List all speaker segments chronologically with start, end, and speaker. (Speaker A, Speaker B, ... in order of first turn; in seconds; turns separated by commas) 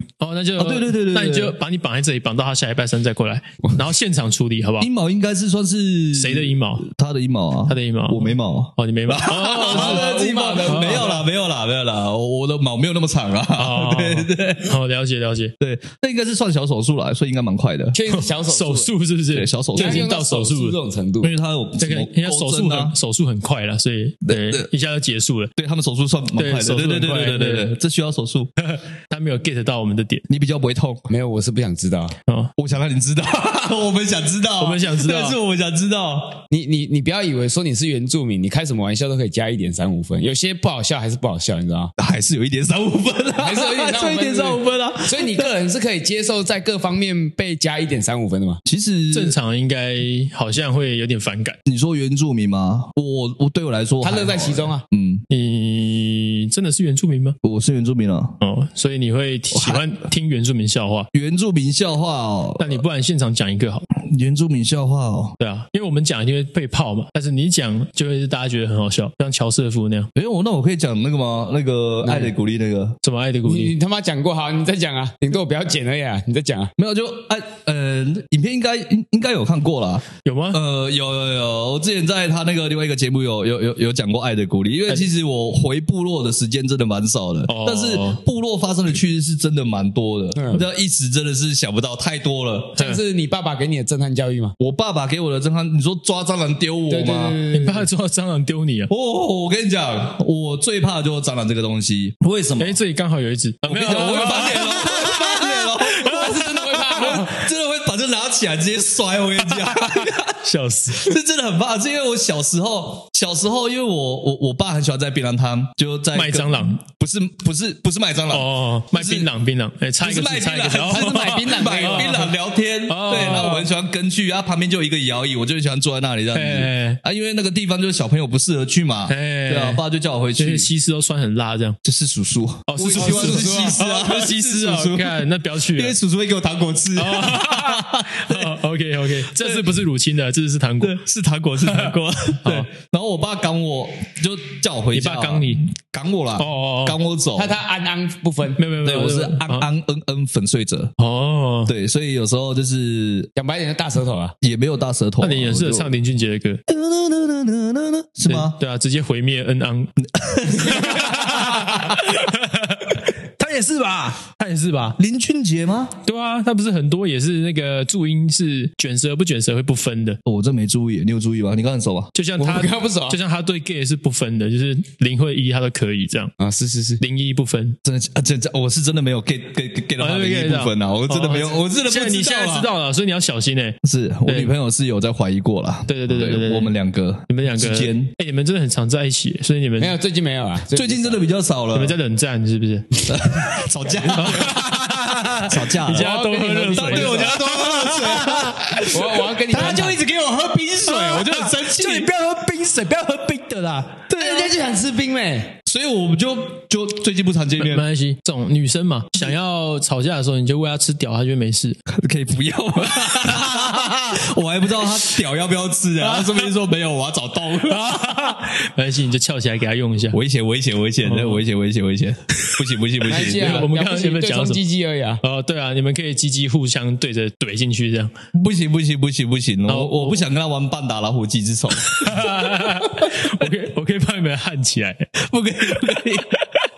Speaker A: 0.2-4.9, Speaker B: 0.6-1.6, Speaker B: 4.8-14.8, Speaker A: 6.1-6.8, Speaker A: 7.7-10.1, Speaker C: 9.3-11.2, Speaker A: 10.7-11.1, Speaker A: 13.6-15.5, Speaker B: 15.6-17.9, Speaker C: 17.9-18.9, Speaker A: 18.1-20.8, Speaker B: 19.3-20.1, Speaker C: 19.7-21.3, Speaker B: 21.2-22.9, Speaker A: 21.8-25.5, Speaker B: 24.2-24.7, Speaker B: 25.6-28.5, Speaker A: 26.4-27.7, Speaker A: 28.6-30.2, Speaker B: 30.3-31.0, Speaker C: 31.1-32.1, Speaker A: 32.3-32.5, Speaker B: 32.6-36.4, Speaker A: 34.6-35.4, Speaker C: 36.5-41.9, Speaker B: 42.0-45.5, Speaker C: 43.4-48.6, Speaker B: 48.6-49.3, Speaker A: 49.1-51.6, Speaker B: 51.6-55.2, Speaker C: 54.0-54.8, Speaker A: 55.3-57.4, Speaker B: 57.4-58.4, Speaker A: 58.4-61.1, Speaker B: 59.5-59.9, Speaker B: 61.1-62.8, Speaker A: 62.6-63.9, Speaker B: 64.0-65.4, Speaker A: 65.4-70.1, Speaker B: 70.1-73.0, Speaker A: 73.0-73.7, Speaker C: 73.4-76.7, Speaker B: 76.8-92.8, Speaker A: 80.2-80.6, Speaker A: 87.5-88.2, Speaker C: 90.3-90.6, Speaker C: 92.8-94.5, Speaker B: 94.6-97.4, Speaker C: 96.9-97.9, Speaker A: 97.5-98.9, Speaker B: 98.9-102.8, Speaker A: 102.6-107.3, Speaker B: 103.6-119.3, Speaker C: 104.1-104.8, Speaker C: 106.0-107.3, Speaker A: 109.5-111.1, Speaker A: 116.1-116.8, Speaker A: 118.3-122.3, Speaker B: 120.0-130.7, Speaker C: 120.8-122.3, Speaker A: 122.9-123.7, Speaker A: 126.3-127.0, Speaker A: 129.1-129.8, Speaker A: 130.4-131.8, Speaker B: 131.8-138.6, Speaker A: 132.7-135.9, Speaker C: 132.9-133.8, Speaker A: 136.9-141.0, Speaker B: 139.3-139.7, Speaker B: 140.8-147.6, Speaker A: 141.7-141.9, Speaker A: 144.9-145.6, Speaker A: 146.4-147.0, Speaker C: 147.3-148.6, Speaker A: 148.6-149.7, Speaker B: 148.8-150.9, Speaker A: 151.0-151.7, Speaker B: 151.7-153.3, Speaker C: 153.4-154.3, Speaker B: 154.4-155.9, Speaker A: 155.2-156.6, Speaker B: 156.7-158.6, Speaker A: 158.3-165.0, Speaker B: 160.0-162.0, Speaker B: 165.0-165.9, Speaker A: 166.0-170.2, Speaker B: 170.2-172.1, Speaker A: 172.1-176.3, Speaker C: 172.4-173.2, Speaker C: 176.4-177.0, Speaker A: 177.0-177.8, Speaker B: 177.8-182.7, Speaker A: 180.0-184.5, Speaker B: 183.8-188.1, Speaker A: 185.9-186.7, Speaker A: 187.3-189.9, Speaker C: 189.8-191.2, Speaker B: 190.7-192.0, Speaker A: 191.7-193.0, Speaker B: 193.1-196.1, Speaker A: 194.1-199.9, Speaker C: 194.3-194.5, Speaker C: 195.9-197.4, Speaker B: 196.6-199.0, Speaker C: 198.8-200.0, Speaker B: 199.5-202.1, Speaker A: 200.8-204.1, Speaker B: 204.1-204.6, Speaker C: 204.2-205.6, Speaker B: 205.7-207.8, Speaker A: 207.6-211.8, Speaker B: 211.9-218.1, Speaker A: 213.0-214.0, Speaker A: 216.1-216.4, Speaker A: 217.7-220.2, Speaker B: 220.1-223.7, Speaker A: 221.0-221.4, Speaker C: 223.1-225.2, Speaker A: 223.1-224.6, Speaker A: 225.2-228.1, Speaker B: 228.3-233.5, Speaker A: 229.7-230.2, Speaker A: 231.8-235.1, Speaker B: 235.2-236.3